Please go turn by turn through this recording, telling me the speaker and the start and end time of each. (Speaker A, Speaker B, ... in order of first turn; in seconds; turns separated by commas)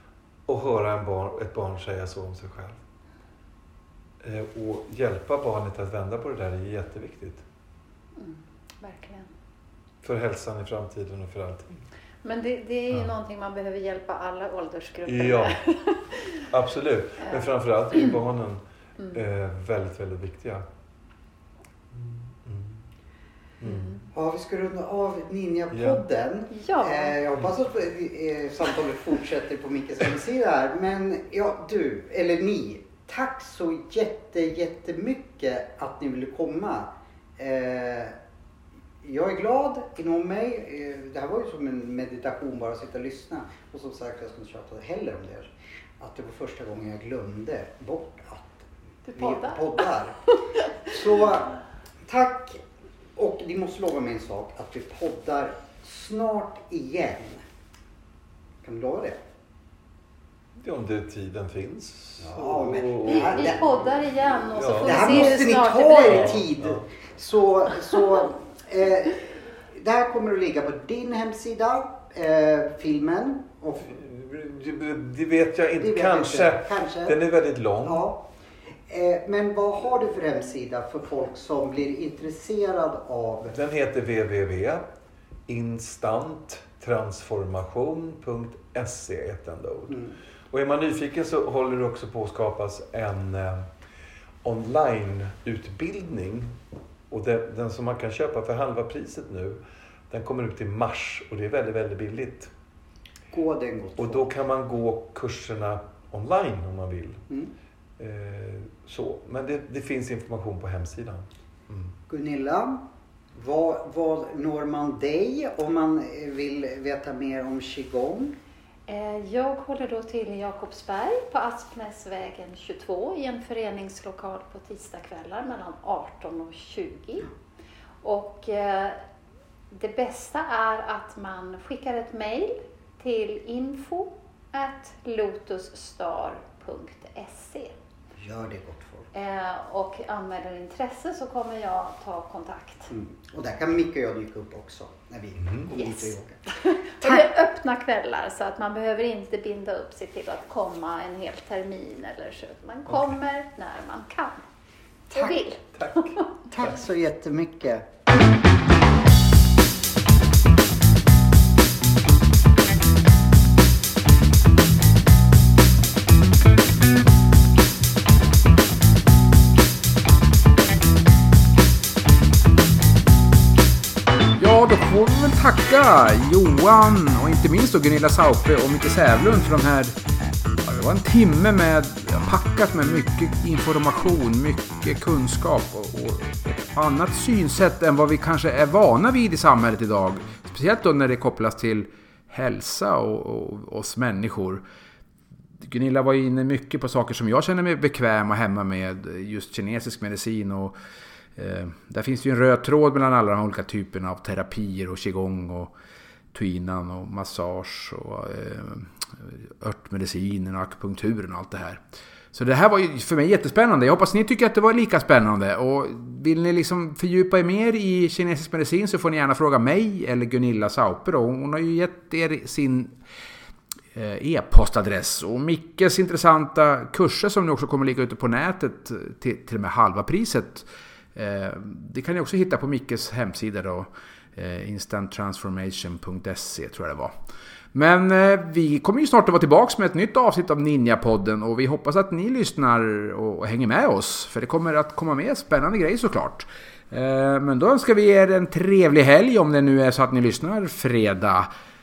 Speaker A: 0.5-2.8, Speaker A: 4.2-7.4, Speaker B: 8.2-9.3, Speaker A: 10.0-11.9, Speaker B: 12.2-16.4, Speaker A: 15.1-15.6, Speaker A: 16.4-20.6, Speaker A: 21.9-22.8, Speaker A: 23.6-24.0, Speaker B: 23.7-24.0, Speaker C: 24.1-38.2, Speaker A: 25.7-26.0, Speaker B: 26.5-27.2, Speaker C: 39.0-50.2, Speaker B: 49.1-49.8, Speaker C: 50.9-52.6, Speaker C: 53.1-57.4, Speaker C: 58.6-59.2, Speaker A: 60.6-63.7, Speaker C: 62.2-63.6, Speaker B: 63.1-66.4, Speaker A: 64.6-65.4, Speaker C: 64.8-73.9, Speaker A: 66.0-66.8, Speaker A: 73.8-78.0, Speaker C: 75.8-77.2, Speaker C: 77.8-78.3, Speaker C: 78.9-83.5, Speaker A: 83.5-84.8, Speaker A: 85.5-93.7, Speaker C: 89.9-90.2, Speaker A: 94.4-96.6, Speaker A: 97.1-102.5, Speaker C: 103.3-104.3, Speaker A: 104.0-107.2, Speaker A: 108.0-112.0, Speaker C: 112.1-118.4, Speaker B: 118.9-127.3, Speaker B: 128.0-129.0, Speaker B: 129.7-137.8, Speaker C: 138.2-139.1, Speaker B: 139.1-142.9, Speaker C: 142.9-146.5, Speaker A: 145.4-145.7, Speaker B: 145.7-154.4, Speaker C: 155.1-155.3, Speaker B: 155.1-156.2, Speaker A: 155.8-156.8, Speaker C: 156.5-157.8, Speaker D: 174.4-179.9, Speaker D: 180.6-194.6, Speaker D: 195.6-200.7, Speaker D: 201.4-205.7, Speaker D: 206.3-211.8, Speaker D: 212.3-223.0, Speaker D: 223.9-237.2, Speaker D: 237.7-251.5